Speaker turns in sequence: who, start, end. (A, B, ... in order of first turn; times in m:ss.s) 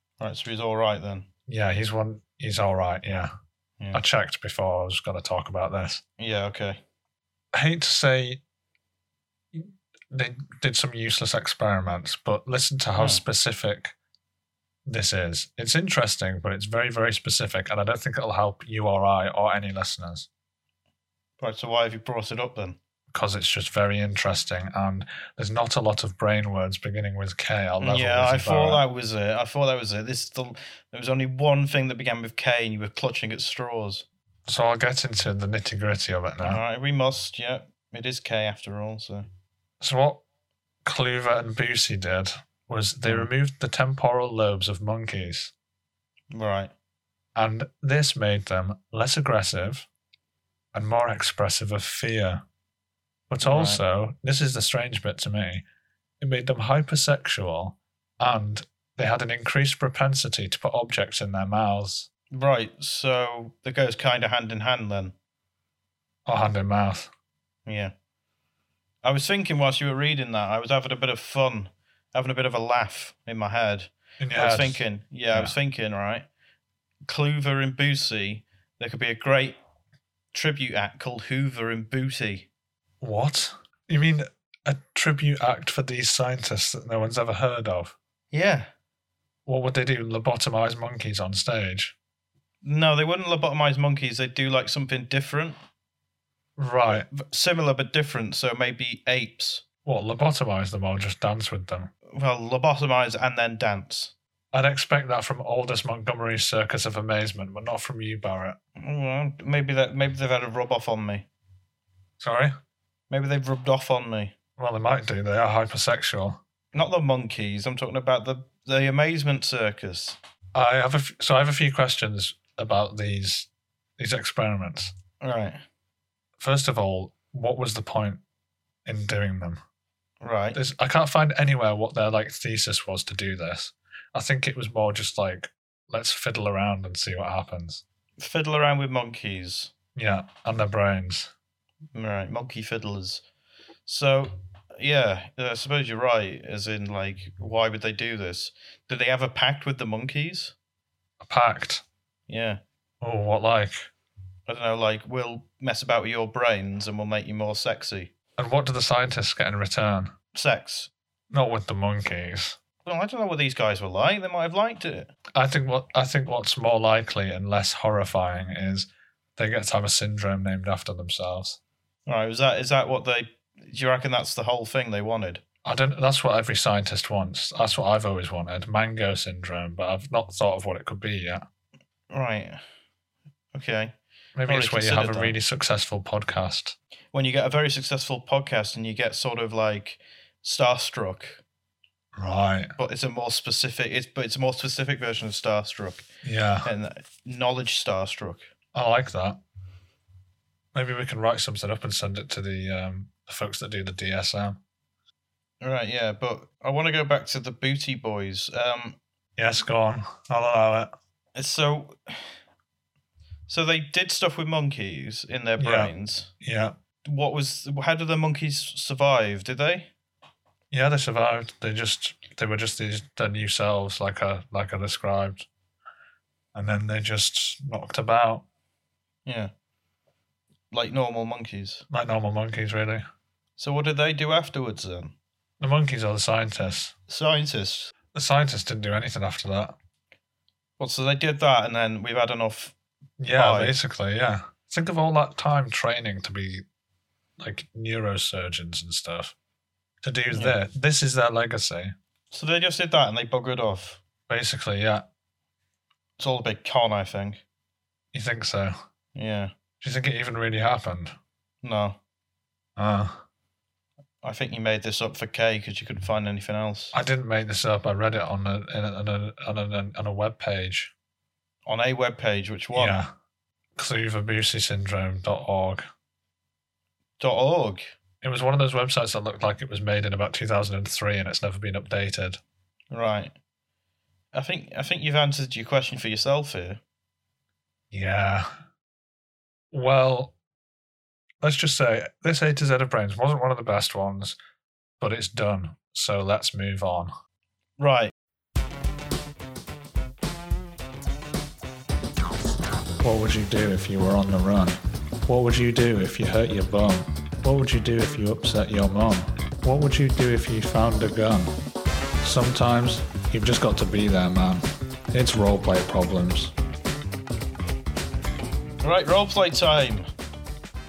0:00.2-0:01.3 A
0:01.5-0:03.3 B
0:03.9-0:06.0 B
0:06.2-0:06.8 A
0:07.5-0:08.4 B
0:09.5-0:13.9 B
0:13.0-0:13.2 A
0:14.9-0:20.3 B
0:21.4-0:22.8 A
0:23.1-0:28.8 B
0:27.8-0:34.1 A
0:34.5-0:36.6 B
0:36.4-0:39.3 A
0:39.8-0:40.2 B
0:40.8-0:45.5 B
0:46.3-0:46.7 A
0:47.4-0:49.9 B
0:50.7-0:52.4 B
0:53.3-0:55.6 B
0:53.4-0:53.8 A
0:56.2-1:02.1 B
1:02.3-1:05.1 A
1:06.3-1:07.1 B
1:07.7-1:07.9 A
1:09.0-1:16.3 A
1:14.2-1:15.5 B
1:17.1-1:19.6 A
1:20.3-1:22.5 A
1:23.0-1:28.0 B
1:28.3-1:28.7 A
1:29.5-1:31.9 B
1:32.6-1:35.6 A
1:36.6-1:37.1 B
1:36.9-1:39.6 A
1:39.8-1:41.9 B
1:42.1-1:44.1 A
1:44.5-1:48.6 B
1:48.8-1:51.3 A
1:52.2-1:52.5 B
1:53.1-1:54.3 A
1:54.6-1:56.4 B
1:56.7-2:00.2 A
2:00.5-2:04.9 B
2:05.2-2:05.6 A
2:06.4-2:08.2 B
2:08.9-2:09.6 B
2:10.2-2:10.6 A
2:10.5-2:17.8 B
2:18.2-2:19.7 A
2:20.0-2:21.3 B
2:22.0-2:23.2 A
2:23.9-2:30.6 A
2:31.2-2:31.8 B
2:32.3-2:32.6 A
2:33.0-2:33.9 B
2:34.5-2:38.1 A
2:38.4-2:40.1 B
2:40.3-2:40.9 A
2:41.3-2:42.6 B
2:42.8-2:45.1 A
2:45.4-2:51.6 B
2:52.1-2:55.4 A
2:55.6-3:01.4 B
3:02.1-3:02.6 A
3:03.5-3:03.9 A
3:04.4-3:06.8 B
3:04.5-3:05.4 A
3:07.1-3:11.4 A
3:12.2-3:12.7 B
3:12.8-3:16.1 A
3:16.2-3:16.7 B
3:16.6-3:18.5 A
3:18.7-3:19.4 B
3:20.7-3:24.6 B
3:25.6-3:29.0 A
3:29.4-3:30.9 B
3:31.4-3:32.3 A
3:33.5-3:36.3 A
3:35.6-3:36.8 B
3:37.0-3:39.9 A
3:40.7-3:45.5 B
3:46.5-3:48.4 B
3:49.3-3:49.5 A
3:50.7-3:51.8 A
3:51.9-3:53.0 B
3:53.6-3:55.1 A
3:55.6-3:56.9 B
3:57.1-3:57.9 A
3:58.1-3:59.8 B
4:00.8-4:02.7 A
4:03.2-4:06.6 B
4:03.3-4:03.7 A
4:07.4-4:09.3 B
4:10.0-4:11.9 B
4:10.3-4:10.6 A
4:12.3-4:14.0 A
4:14.3-4:15.0 B
4:16.2-4:17.4 A
4:18.1-4:18.7 B
4:19.2-4:19.5 A
4:19.8-4:21.1 B
4:21.6-4:22.0 A
4:22.8-4:23.2 B
4:24.2-4:26.9 A
4:26.9-4:30.9 B
4:31.7-4:33.0 A
4:32.7-4:33.1 B
4:33.8-4:35.8 B
4:37.2-4:37.8 A
4:38.2-4:42.4 B
4:42.9-4:43.3 A
4:44.3-4:46.8 A
4:47.9-4:48.5 B
4:49.7-4:50.4 B
4:51.4-4:54.4 B
4:55.0-4:57.1 B
4:57.8-4:58.1 A
5:03.0-5:11.5 B
5:12.2-5:16.5 B
5:18.8-5:20.1 A